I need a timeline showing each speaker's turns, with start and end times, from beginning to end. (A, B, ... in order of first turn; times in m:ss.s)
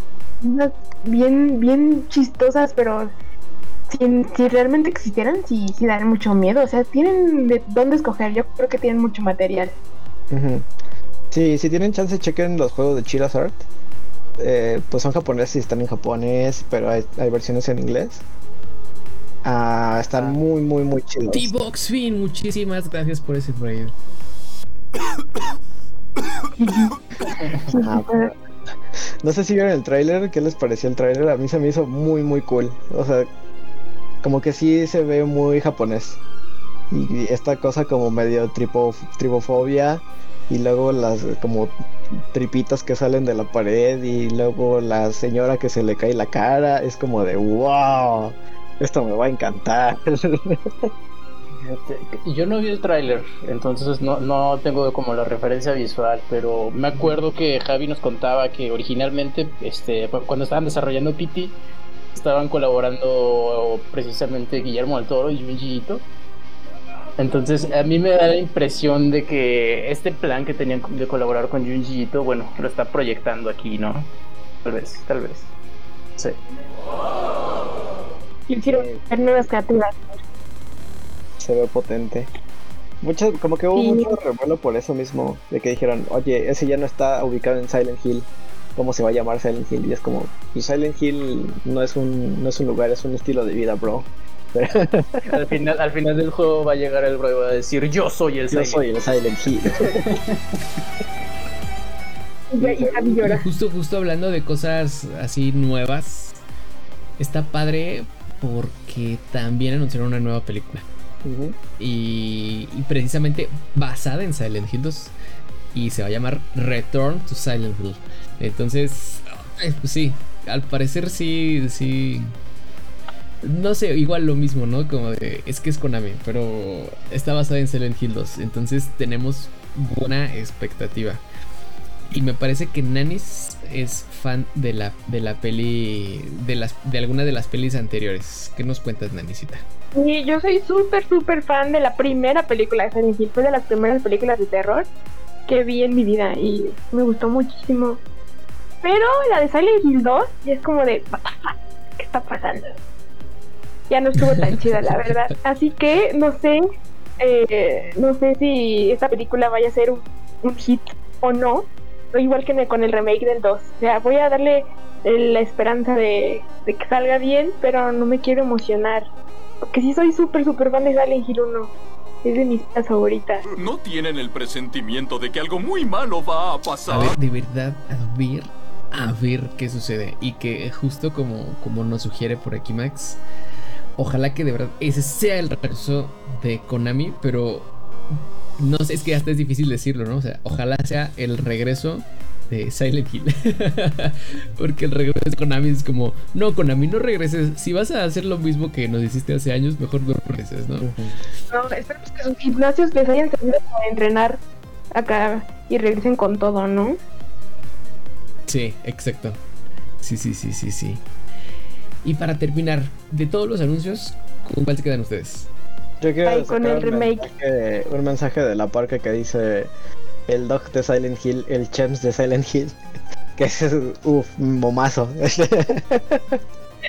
0:00.4-0:03.1 A
0:03.9-0:09.8 A
0:10.3-0:10.7 B
0:11.3-0:13.6 B
0:14.4-0:18.2 B
0:19.4-0:21.5 B
0:20.1-0:20.4 C
0:21.3-0:23.9 D
0:26.6-0:27.0 A
0:27.7-0:28.3 A
0:27.7-0:28.3 B
0:29.2-0:33.3 B
0:34.2-0:36.2 B
0:36.9-0:50.9 B
0:51.6-1:01.6 C
1:02.1-1:06.0 C
1:07.2-1:14.1 C
1:14.6-1:15.5 C
1:18.5-1:20.2 A
1:18.6-1:19.1 B
1:21.4-1:22.3 B
1:23.0-1:35.2 B
1:23.7-1:24.1 A
1:35.3-1:38.8 C
1:38.5-1:40.0 B
1:40.0-1:40.4 C
1:42.5-1:43.4 A
1:42.6-1:43.1 B
1:43.2-1:46.4 D
1:47.2-1:50.8 D
1:51.2-1:51.6 B
1:51.8-1:55.1 D
1:55.7-2:02.3 D
2:03.4-2:11.2 D
2:12.1-2:19.6 D
2:19.9-2:24.9 A
2:25.5-2:28.0 A
2:28.8-2:32.8 A
2:33.9-2:36.6 A
2:37.2-2:49.0 A
2:49.7-2:53.4 A
2:53.5-2:57.1 E
2:56.9-3:03.2 D
3:04.0-3:07.7 D
3:08.6-3:20.9 D
3:20.8-3:21.2 B
3:21.5-3:24.4 A
3:24.9-3:27.0 A
3:28.5-3:29.4 D
3:30.0-3:31.0 D
3:32.0-3:35.5 D
3:36.0-3:39.7 B
3:36.2-3:37.3 A
3:40.3-3:42.8 B
3:43.4-3:46.4 B